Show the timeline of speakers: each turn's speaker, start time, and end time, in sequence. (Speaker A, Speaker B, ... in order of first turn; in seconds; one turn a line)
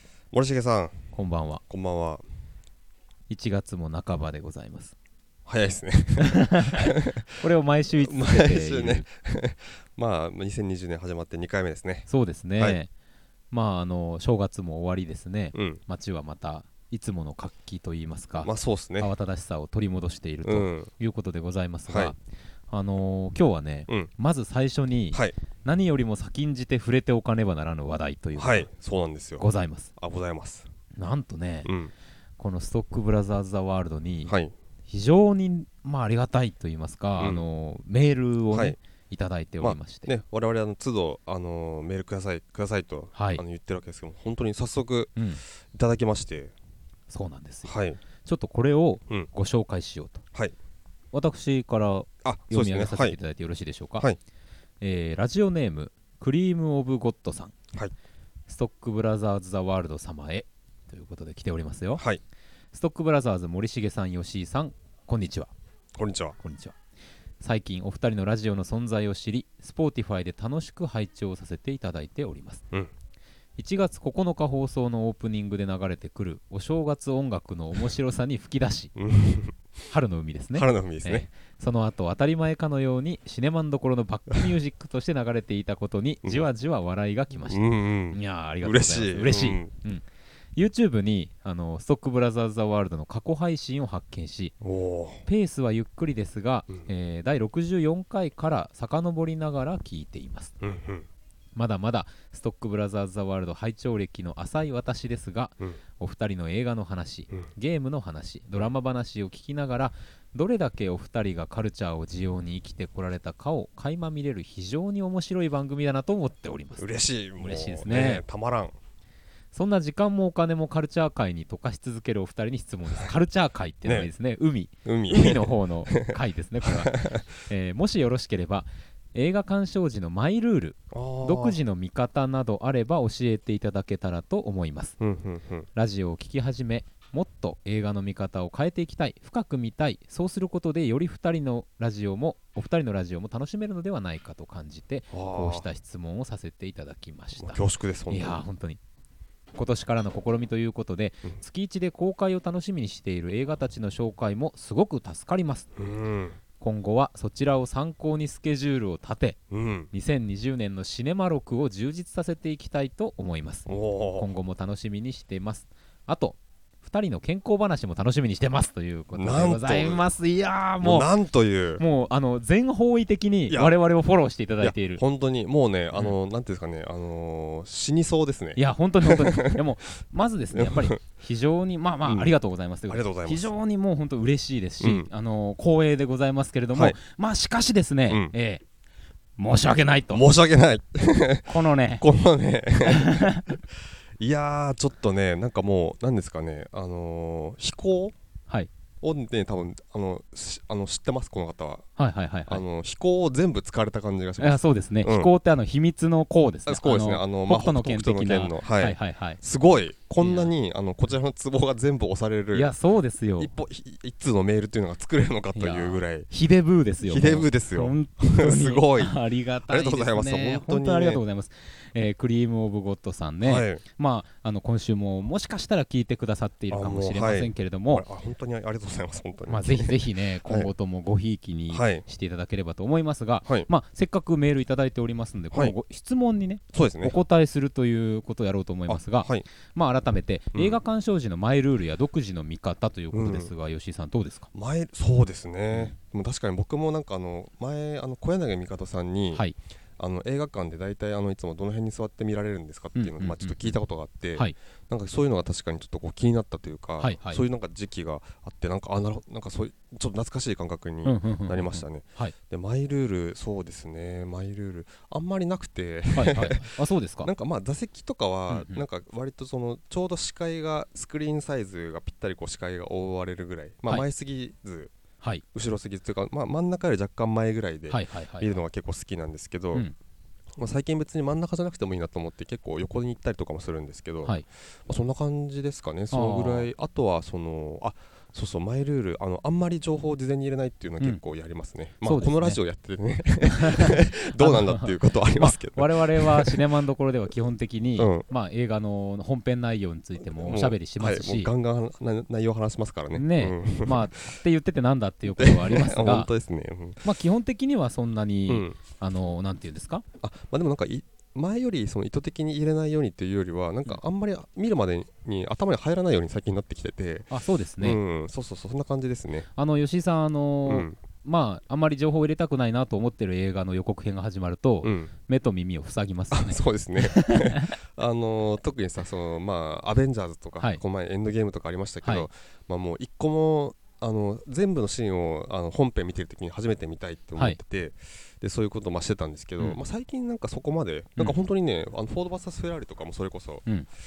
Speaker A: 0.3-1.0
Speaker B: 1.1-1.6
Speaker A: 1.7-2.2
Speaker B: 3.3-4.9
Speaker A: 5.5-7.4
Speaker B: 6.2-9.1
Speaker A: 8.0-12.1
Speaker B: 12.1-12.9
Speaker B: 13.5-22.2
Speaker A: 15.5-15.8
Speaker A: 18.4-19.1
Speaker A: 20.4-20.9
Speaker A: 21.9-22.1
Speaker B: 22.7-28.7
Speaker A: 28.4-29.4
Speaker B: 29.4-29.9
Speaker A: 30.0-30.7
Speaker B: 31.0-31.7
Speaker A: 31.6-31.9
Speaker B: 32.4-34.4
Speaker A: 34.3-34.5
Speaker B: 34.9-40.1
Speaker A: 37.2-37.4
Speaker A: 38.5-38.8
Speaker A: 39.6-45.1
Speaker B: 43.1-43.4
Speaker A: 45.7-46.5
Speaker B: 47.1-50.2
Speaker A: 47.7-48.0
Speaker B: 51.1-54.1
Speaker A: 52.2-53.2
Speaker B: 54.8-57.5
Speaker B: 58.5-62.0
Speaker B: 62.7-65.5
Speaker A: 66.0-66.4
Speaker B: 66.4-66.8
Speaker B: 67.4-72.7
Speaker B: 73.6-78.9
Speaker A: 79.0-79.5
Speaker B: 79.9-90.0
Speaker A: 80.5-81.3
Speaker A: 87.5-89.7
Speaker B: 90.6-94.5
Speaker A: 94.6-95.2
Speaker B: 95.3-100.5
Speaker A: 100.6-101.1
Speaker B: 101.6-116.8
Speaker A: 116.8-118.8
Speaker B: 117.4-118.2
Speaker B: 119.5-135.0
Speaker A: 124.8-127.3
Speaker A: 130.9-131.6
Speaker A: 135.0-135.7
Speaker B: 135.8-148.8
Speaker A: 145.1-145.7
Speaker A: 147.4-148.4
Speaker B: 149.6-155.7
Speaker A: 155.8-156.4
Speaker B: 156.6-159.4
Speaker A: 159.5-159.9
Speaker B: 159.9-171.1
Speaker A: 163.7-164.3
Speaker A: 169.2-170.1
Speaker A: 170.8-171.8
Speaker B: 171.8-175.0
Speaker A: 174.6-179.6
Speaker B: 178.6-188.6
Speaker A: 180.5-181.0
Speaker A: 182.1-182.3
Speaker A: 182.9-183.5
Speaker A: 184.8-185.1
Speaker A: 188.1-188.3
Speaker B: 189.4-190.3
Speaker A: 190.1-193.4
Speaker B: 191.5-192.1
Speaker B: 192.8-193.6
Speaker A: 194.2-198.2
Speaker A: 199.0-201.9
Speaker B: 202.0-202.6
Speaker A: 202.5-205.3
Speaker B: 204.4-209.4
Speaker A: 206.7-212.7
Speaker B: 210.2-210.5
Speaker B: 212.5-213.5
Speaker A: 213.4-216.3
Speaker B: 215.6-228.1
Speaker A: 217.0-219.2
Speaker A: 219.7-221.2
Speaker A: 223.4-223.8
Speaker A: 226.7-230.7
Speaker B: 229.5-244.5
Speaker A: 231.7-232.0
Speaker A: 236.7-237.2
Speaker A: 238.9-239.5
Speaker A: 243.1-243.5
Speaker A: 244.5-249.4
Speaker A: 250.0-266.7
Speaker B: 253.0-253.8
Speaker B: 257.0-257.4
Speaker B: 261.1-262.3
Speaker B: 266.1-267.3
Speaker A: 267.2-274.9
Speaker B: 268.5-268.8
Speaker A: 275.5-279.9
Speaker B: 277.9-278.5
Speaker A: 280.6-296.6
Speaker B: 286.1-286.7
Speaker B: 292.1-292.6
Speaker B: 293.4-301.5
Speaker A: 298.0-298.2
Speaker A: 300.3-304.1
Speaker B: 303.1-306.3
Speaker A: 305.4-307.1
Speaker B: 307.0-310.0
Speaker A: 308.5-308.8
Speaker A: 310.2-319.5
Speaker B: 317.3-318.0
Speaker B: 319.6-327.8
Speaker A: 320.7-321.0
Speaker A: 324.8-325.1
Speaker A: 326.3-343.6